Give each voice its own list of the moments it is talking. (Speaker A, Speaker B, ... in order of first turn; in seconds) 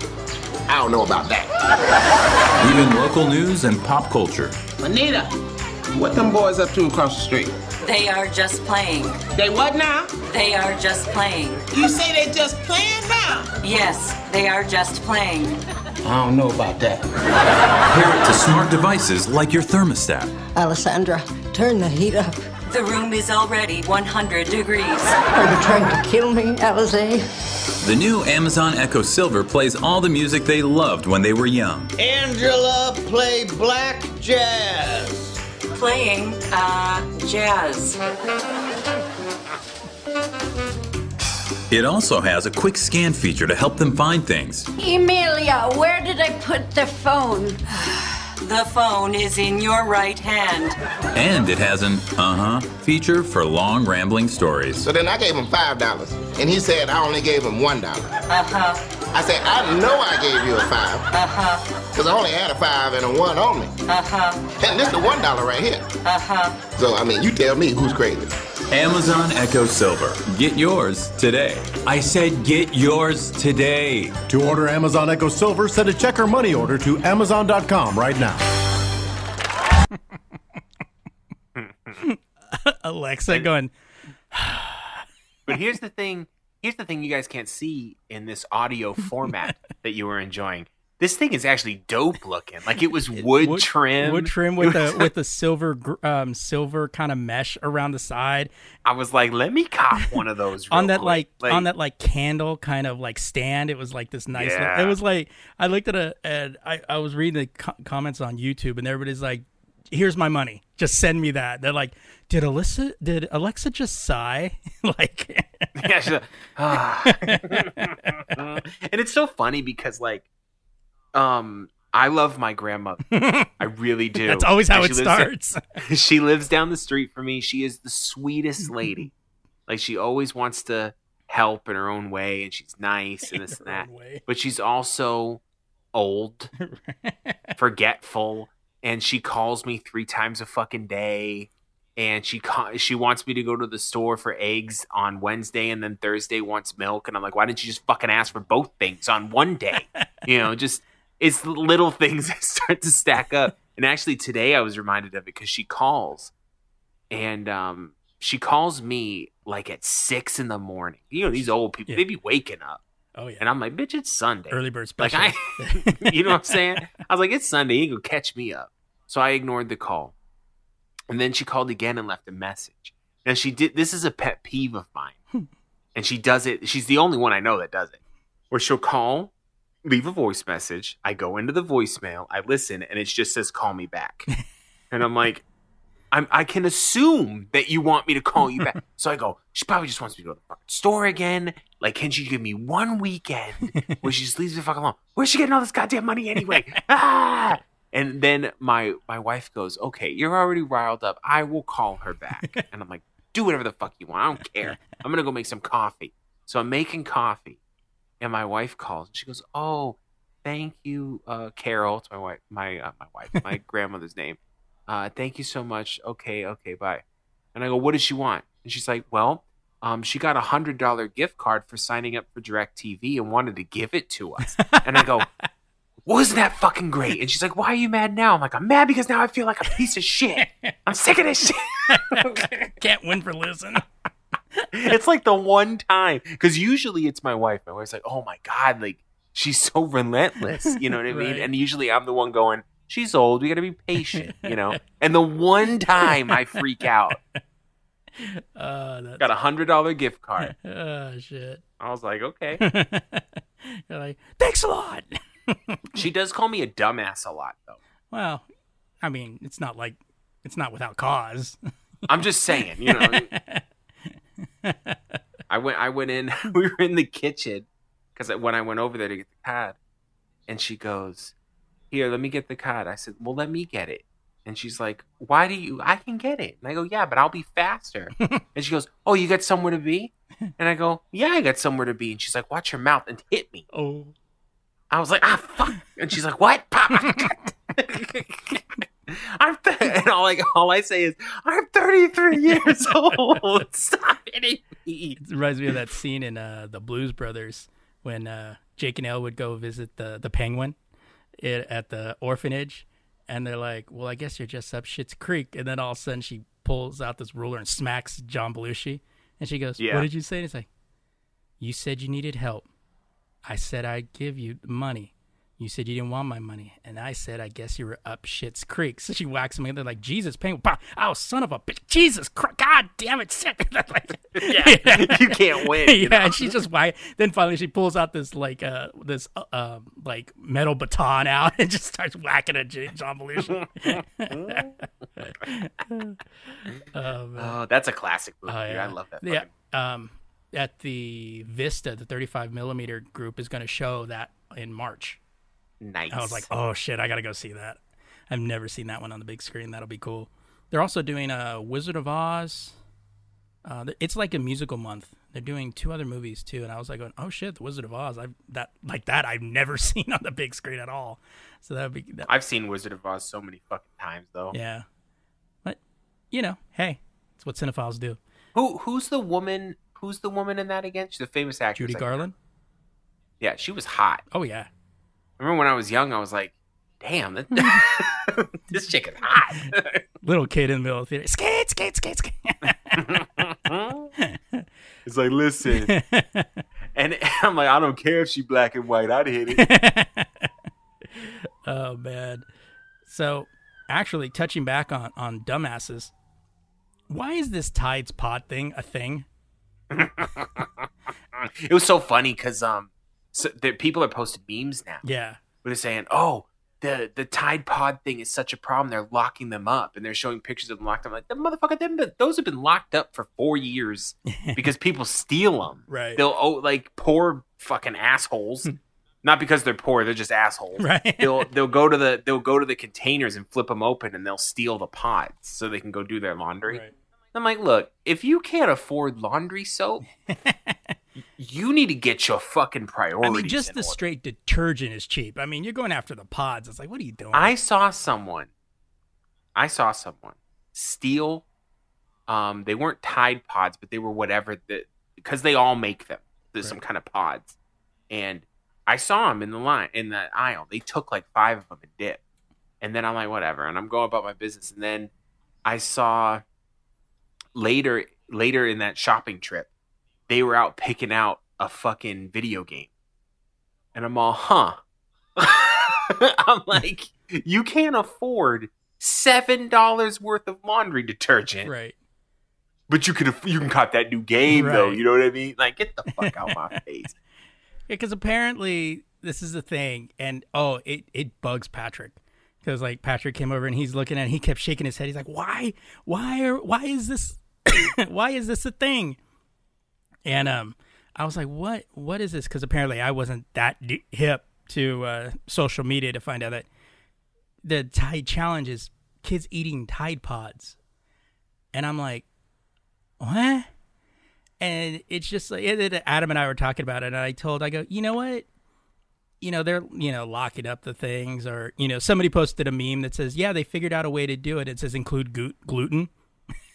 Speaker A: 0.7-1.5, 54.8-58.1, 59.1-61.0, 61.9-63.7, 64.6-65.8, 66.8-68.3
Speaker B: 2.6-4.6, 17.9-20.3, 27.8-31.9, 41.7-44.7, 51.1-54.8, 68.7-74.2
Speaker C: 4.8-5.3, 5.9-7.5, 9.3-10.1, 11.7-13.5, 16.1-17.0, 32.0-35.2
Speaker D: 7.8-9.2, 10.3-11.6, 13.6-15.6, 22.7-25.2, 35.7-38.0, 48.3-50.8, 58.3-58.8, 61.1-61.6, 63.9-64.5, 66.0-66.6
Speaker E: 20.5-22.4, 25.3-27.2, 44.8-47.6
Speaker F: 74.3-78.4
Speaker G: 81.5-82.0, 85.5-95.1, 98.8-101.7, 104.3-105.0, 115.8-120.2, 121.1-129.1, 129.7-135.4, 135.9-136.5, 137.6-156.3, 157.1-162.8, 163.4-170.1, 171.1-175.2, 175.9-178.0, 178.5-179.3, 179.8-184.3, 184.9-185.4, 186.1-207.6, 208.2-217.0, 217.5-225.3, 226.1-232.7, 234.7-247.2, 249.2-250.5, 251.8-252.6, 255.9-257.8, 262.1-263.3, 265.5-269.8, 270.5-271.3, 271.9-283.6, 284.9-295.2, 309.8-310.1, 324.4-326.5, 333.5-334.7, 337.4-339.5, 345.8-346.5, 362.3-364.5, 368.5-372.3, 373.4-374.2, 375.4-380.0, 382.9-384.1, 385.0-385.9, 386.9-389.7, 399.9-400.8, 401.3-405.0, 405.6-418.7, 419.2-430.0, 431.4-434.0, 437.3-438.5, 439.5-441.4, 442.3-447.6, 448.1-452.2, 452.8-455.1, 455.6-456.4, 457.5-459.7, 460.3-462.9, 463.9-464.8, 465.4-471.7, 472.9-477.1
Speaker H: 82.0-83.7, 84.3-85.0, 93.1-98.5, 100.7-115.9, 117.0-118.2, 123.1-123.5, 124.2-125.6, 133.2-134.2, 136.6-137.5, 161.4-162.0, 163.2-163.4, 164.5-166.8, 224.6-225.4, 231.9-233.9, 240.5-241.5, 244.0-244.8, 246.0-246.5, 247.1-247.4, 248.2-249.3, 250.4-251.6, 252.6-256.0, 258.1-258.4, 259.0-261.6, 262.6-263.6, 264.6-265.1, 283.7-284.1, 287.0-287.3, 295.2-300.8, 301.4-310.7, 311.6-312.7, 313.5-336.2, 336.8-337.6, 338.5-345.2, 346.1-347.8, 348.3-352.8, 353.6-362.3, 364.5-364.8, 366.3-368.2, 371.7-372.3, 374.3-374.7, 380.2-383.2, 384.2-384.6, 385.7-386.6, 389.5-390.5, 391.1-392.4, 393.1-396.1, 397.1-399.2, 405.0-405.4, 414.3-414.6, 415.9-416.2, 420.8-421.5, 430.3-430.8, 433.2-437.5, 471.6-471.9, 474.5-475.0, 476.2-476.6, 477.9-489.2, 490.2-496.6, 497.6-500.8, 501.7-502.2, 503.2-503.7, 504.6-508.5, 509.4-516.1